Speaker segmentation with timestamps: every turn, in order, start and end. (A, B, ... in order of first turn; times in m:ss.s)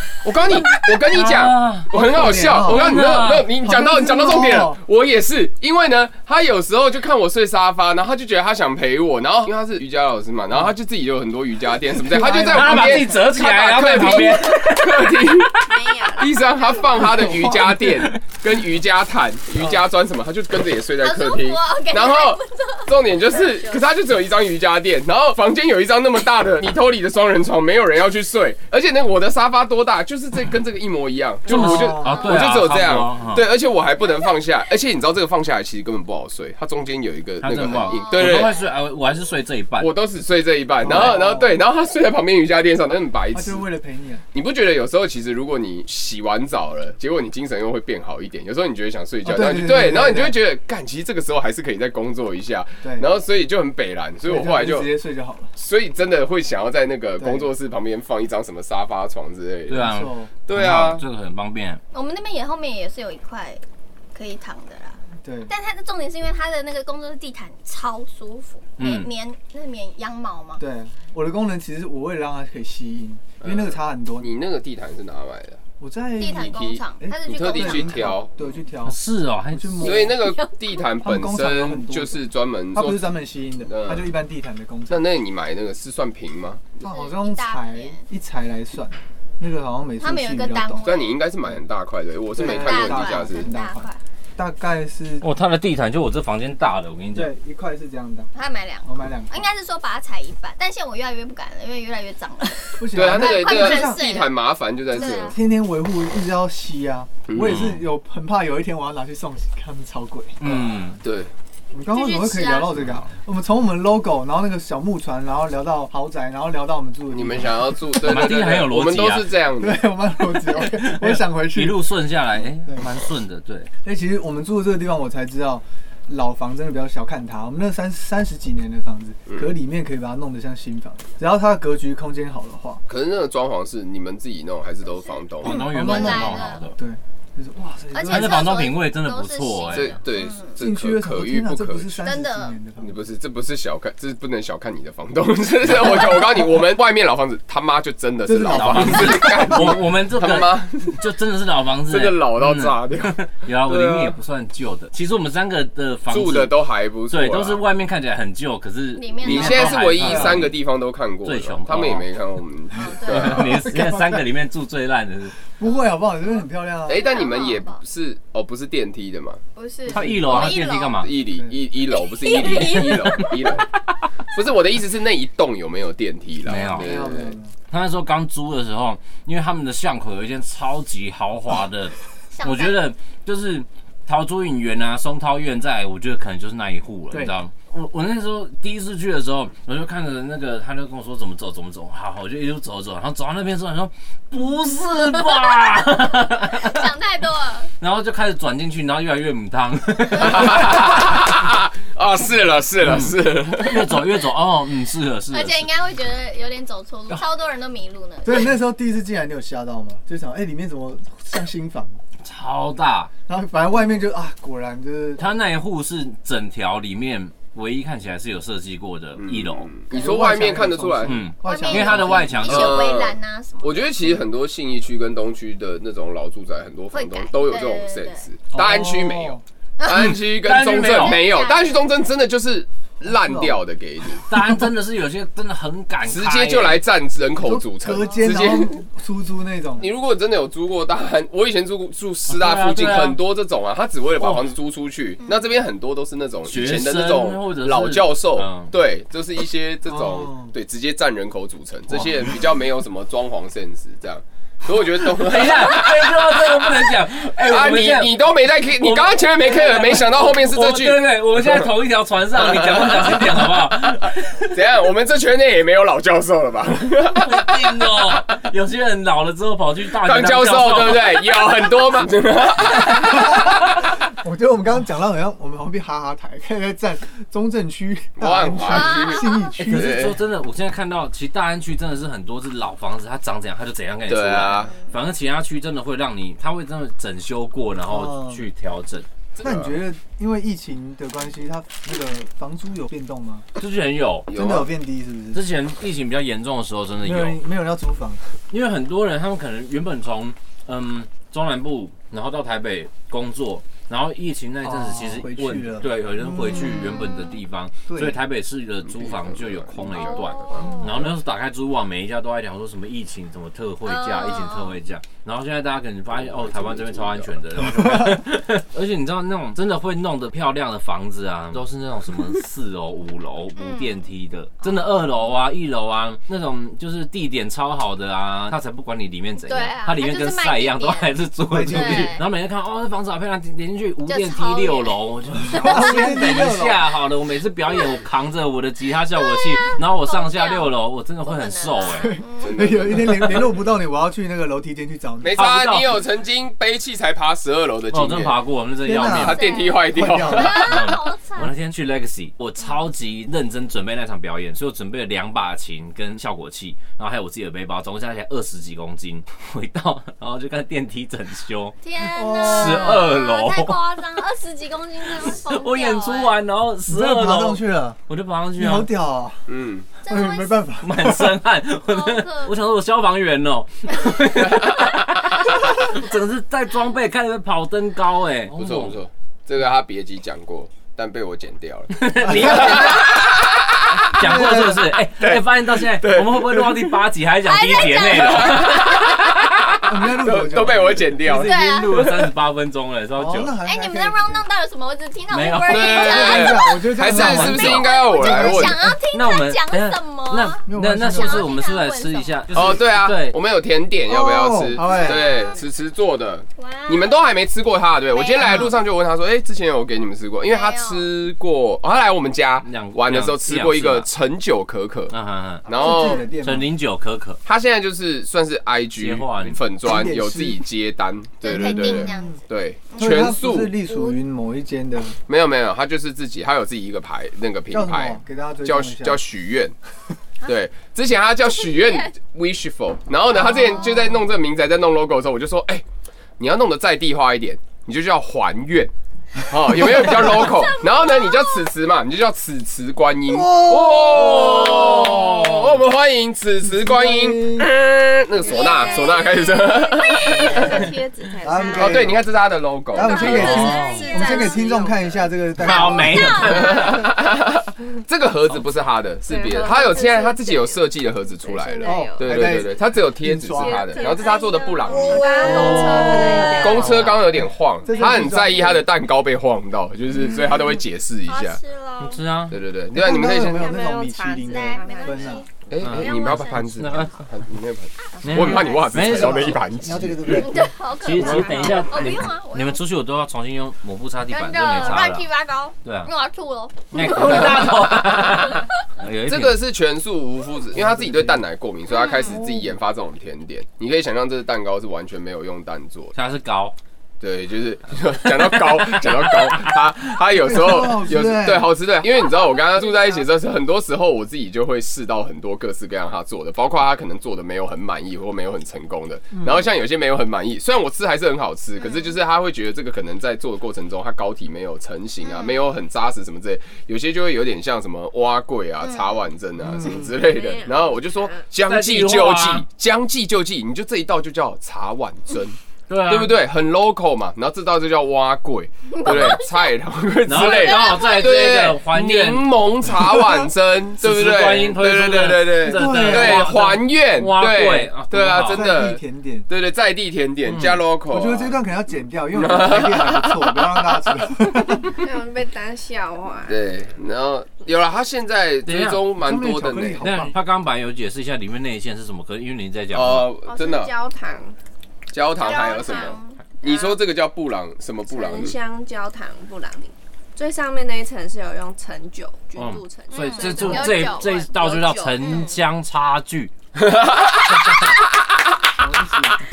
0:00.2-0:38.6 A
0:01.0-0:03.5 B
0:01.9-0:04.8 C
0:11.9-0:13.2 C
0:12.4-0:15.6 B
0:15.6-0:16.7 D
0:16.6-0:17.1 E
0:17.1-0:17.6 C
0:17.2-0:18.2 B
0:21.0-0:23.8 E
0:31.5-0:33.5 B
0:31.5-0:32.2 C
0:32.1-0:32.5 E
0:37.4-0:40.0 B
0:37.6-0:38.7 E
0:39.8-0:43.6 A
0:40.8-0:41.6 C
0:43.3-0:44.2 C
0:44.3-0:54.9 A
0:49.2-0:50.4 C
0:52.8-0:53.1 C
0:54.2-0:55.5 C
0:55.5-0:59.9 A
0:57.2-0:57.5 C
0:59.7-1:01.8 B
0:59.8-1:00.3 C
1:00.4-1:01.0 A
1:01.9-1:03.6 E
1:04.1-1:10.6 E
1:05.2-1:05.5 C
1:08.8-1:09.1 B
1:10.6-1:14.3 C
1:13.4-1:15.6 A
1:15.8-1:19.0 C
1:16.2-1:18.2 E
1:16.4-1:18.3 A
1:18.8-1:20.1 B
1:19.5-1:20.2 C
1:19.8-1:24.1 A
1:20.2-1:20.8 E
1:21.0-1:22.2 C
1:22.7-1:25.0 C
1:24.9-1:26.8 A
1:26.8-1:28.0 E
1:26.8-1:30.9 C
1:30.0-1:31.2 E
1:30.8-1:33.4 A
1:32.3-1:35.2 C
1:32.4-1:34.0 E
1:35.2-1:37.3 B
1:37.1-1:38.3 C
1:38.3-1:45.4 E
1:38.8-1:39.5 C
1:42.8-1:44.0 C
1:42.9-1:45.3 A
1:45.0-1:50.5 C
1:47.3-1:47.7 A
1:47.4-1:47.8 B
1:50.4-1:51.0 B
1:50.5-1:51.3 A
1:51.7-1:57.9 C
1:51.8-1:52.8 E
1:57.1-1:59.8 A
1:58.0-1:59.3 B
1:59.6-2:01.9 C
2:00.3-2:03.7 B
2:03.8-2:12.8 C
2:12.9-2:15.6 A
2:15.0-2:16.6 E
2:15.4-2:16.8 B
2:15.5-2:18.7 C
2:17.9-2:20.6 E
2:18.1-2:20.0 B
2:19.7-2:22.0 A
2:20.6-2:22.9 C
2:22.0-2:22.6 E
2:22.8-2:31.0 A
2:25.7-2:26.0 C
2:28.2-2:29.8 C
2:28.5-2:36.5 B
2:31.9-2:34.1 A
2:36.1-2:37.6 A
2:37.1-2:40.6 B
2:39.0-2:40.2 E
2:39.2-2:43.4 A
2:40.0-2:40.4 C
2:41.2-2:42.1 B
2:42.8-2:43.5 E
2:43.0-2:45.3 B
2:43.3-2:44.3 C
2:45.6-2:47.1 C
2:45.6-2:45.8 E
2:46.8-2:49.4 A
2:46.9-2:47.8 E
2:49.5-2:51.1 E
2:49.9-2:51.1 B
2:49.9-2:50.2 C
2:50.2-2:53.7 A
2:51.9-2:53.4 E
2:52.4-2:53.4 B
2:54.2-2:57.3 A
2:56.4-2:57.0 B
2:56.8-2:57.5 C
2:57.7-3:16.9 B
3:02.3-3:02.9 E
3:15.2-3:15.6 E
3:16.4-3:17.7 E
3:17.8-3:20.9 B
3:20.2-3:24.0 A
3:22.8-3:25.7 B
3:25.3-3:28.5 E
3:28.2-3:32.0 C
3:32.2-3:33.1 B
3:33.3-3:35.2 C
3:35.2-3:39.7 B
3:39.2-3:41.3 A
3:39.9-3:42.6 C
3:41.0-3:42.9 B
3:41.4-3:44.0 E
3:42.4-3:54.2 A
3:46.9-3:48.2 E
3:48.5-3:49.4 C
3:49.8-3:51.9 E
3:49.9-3:51.3 B
3:53.0-3:53.6 C
3:54.2-3:56.8 B
3:56.0-3:58.8 A
3:57.4-3:59.9 C
3:59.8-4:21.6 A
4:02.3-4:03.2 B
4:06.4-4:08.7 B
4:09.9-4:10.5 C
4:15.0-4:24.6 B
4:22.3-4:23.4 A
4:24.5-4:27.7 A
4:27.1-4:31.2 B
4:30.0-4:33.5 A
4:33.0-4:40.1 C
4:38.2-4:40.2 A
4:38.6-4:39.5 E
4:39.6-4:49.1 B
4:44.1-4:44.8 A
4:47.9-4:48.4 C
4:49.3-4:49.8 A
4:49.4-4:53.5 C
4:53.6-4:54.3 B
4:54.3-4:54.7 A
4:54.3-4:55.4 C
4:55.3-4:57.4 B
4:57.0-4:58.3 C
4:58.5-5:42.2 B
5:04.6-5:07.2 C
5:07.9-5:08.2 C
5:08.8-5:11.0 A
5:09.8-5:10.9 E
5:10.6-5:11.1 C
5:13.8-5:14.8 E
5:16.1-5:17.3 A
5:17.7-5:18.2 C
5:23.5-5:24.0 E
5:29.4-5:31.2 E
5:31.5-5:32.2 C
5:31.7-5:32.2 E
5:34.1-5:36.1 E
5:35.4-5:36.8 C
5:39.1-5:42.7 E
5:41.9-5:45.4 C
5:42.4-5:43.4 A
5:45.2-5:48.5 A
5:45.3-5:46.0 B
5:47.9-5:49.5 B
5:48.8-5:50.7 C
5:49.0-5:50.8 A
5:49.2-5:51.5 E
5:50.4-6:01.8 B
6:01.8-6:06.4 E
6:02.1-6:03.1 C
6:02.4-6:03.8 B
6:05.2-6:08.9 B
6:06.9-6:08.0 C
6:08.5-6:09.5 C
6:09.5-6:09.9 A
6:10.0-6:10.6 E
6:10.0-6:11.3 C
6:10.8-6:19.0 B
6:11.8-6:12.5 E
6:14.4-6:14.9 A
6:18.5-6:24.1 A
6:21.9-6:23.1 B
6:22.2-6:23.1 C
6:24.0-6:29.0 B
6:24.2-6:24.9 C
6:25.2-6:27.0 A
6:27.4-6:29.0 E
6:28.3-6:31.6 A
6:29.8-6:31.2 C
6:31.2-6:33.6 B
6:31.3-6:32.2 E
6:33.2-6:34.4 C
6:33.6-6:42.7 E
6:35.3-6:36.2 B
6:35.7-6:38.9 A
6:36.0-6:39.0 C
6:37.0-6:37.8 B
6:39.1-6:43.4 B
6:40.6-6:41.5 C
6:42.5-6:55.1 A
6:44.1-6:45.3 C
6:44.8-6:45.6 E
6:46.6-6:47.3 E
6:48.1-6:48.7 E
6:48.4-6:48.7 C
6:50.4-6:51.1 E
6:52.6-6:54.1 B
6:55.1-6:55.7 B
6:55.6-6:56.2 A
6:55.7-6:56.7 C
6:56.4-6:57.4 B
6:57.4-7:03.7 A
6:59.0-6:59.6 B
6:59.8-7:00.6 C
7:01.4-7:03.4 E
7:01.5-7:02.4 C
7:03.0-7:05.2 C
7:05.3-7:09.7 A
7:07.7-7:09.2 C
7:10.4-7:15.8 A
7:11.5-7:12.1 E
7:13.4-7:13.8 E
7:16.4-7:18.9 A
7:19.4-7:30.8 A
7:19.9-7:21.7 E
7:23.3-7:25.3 C
7:26.6-7:27.7 C
7:28.4-7:32.2 D
7:28.4-7:30.8 E
7:31.4-7:32.2 C
7:31.8-7:33.5 A
7:32.9-7:36.6 C
7:33.0-7:34.8 E
7:33.0-7:35.3 D
7:33.2-7:34.1 B
7:35.6-7:37.0 B
7:35.6-7:37.1 E
7:36.4-7:51.6 A
7:39.3-7:40.7 D
7:39.3-7:40.8 E
7:41.4-7:42.7 D
7:41.8-7:44.0 C
7:43.5-7:47.1 D
7:44.0-7:46.6 E
7:45.4-7:48.9 C
7:46.6-7:47.4 B
7:50.2-7:50.6 E
7:51.2-7:52.2 E
7:52.0-7:52.6 B
7:52.5-7:53.8 A
7:52.9-7:55.4 C
7:53.1-7:56.7 D
7:54.5-7:57.1 E
7:55.7-8:00.4 A
7:55.8-7:57.2 B
7:58.2-8:00.4 B
7:58.3-7:58.8 E
7:59.8-8:00.6 C
8:00.3-8:02.8 E
8:01.0-8:05.3 B
8:01.2-8:01.8 D
8:04.3-8:07.9 E
8:05.8-8:06.1 B
8:06.9-8:09.6 B
8:07.0-8:08.4 A
8:09.3-8:16.1 A
8:10.7-8:11.4 C
8:11.9-8:12.4 E
8:12.3-8:12.7 C
8:16.1-8:16.8 B
8:17.2-9:01.6 A
8:18.2-8:19.8 B
8:20.3-8:21.8 C
8:22.1-8:23.2 E
8:29.3-8:29.6 C
8:31.8-8:32.2 E
8:35.2-8:35.6 E
8:38.8-8:39.2 E
8:39.8-8:41.4 D
8:41.6-8:42.6 B
8:45.9-8:46.4 B
8:48.9-8:49.7 E
8:50.2-8:52.5 B
8:50.3-8:51.5 E
8:54.0-8:58.7 B
8:55.6-8:56.7 C
8:58.4-8:59.5 C
9:00.4-9:00.8 B
9:01.1-9:05.0 C
9:02.3-9:04.5 A
9:04.9-9:06.6 D
9:06.4-9:10.0 A
9:08.6-9:09.0 B
9:09.2-9:10.4 C
9:10.0-9:13.3 B
9:12.9-9:13.9 A
9:13.4-9:14.6 D
9:15.1-9:18.6 A
9:15.4-9:17.0 E
9:15.8-9:16.1 D
9:18.1-9:25.5 D
9:22.6-9:26.5 B
9:23.1-9:24.5 E
9:25.2-9:25.5 E
9:26.8-9:28.0 A
9:28.8-9:29.4 C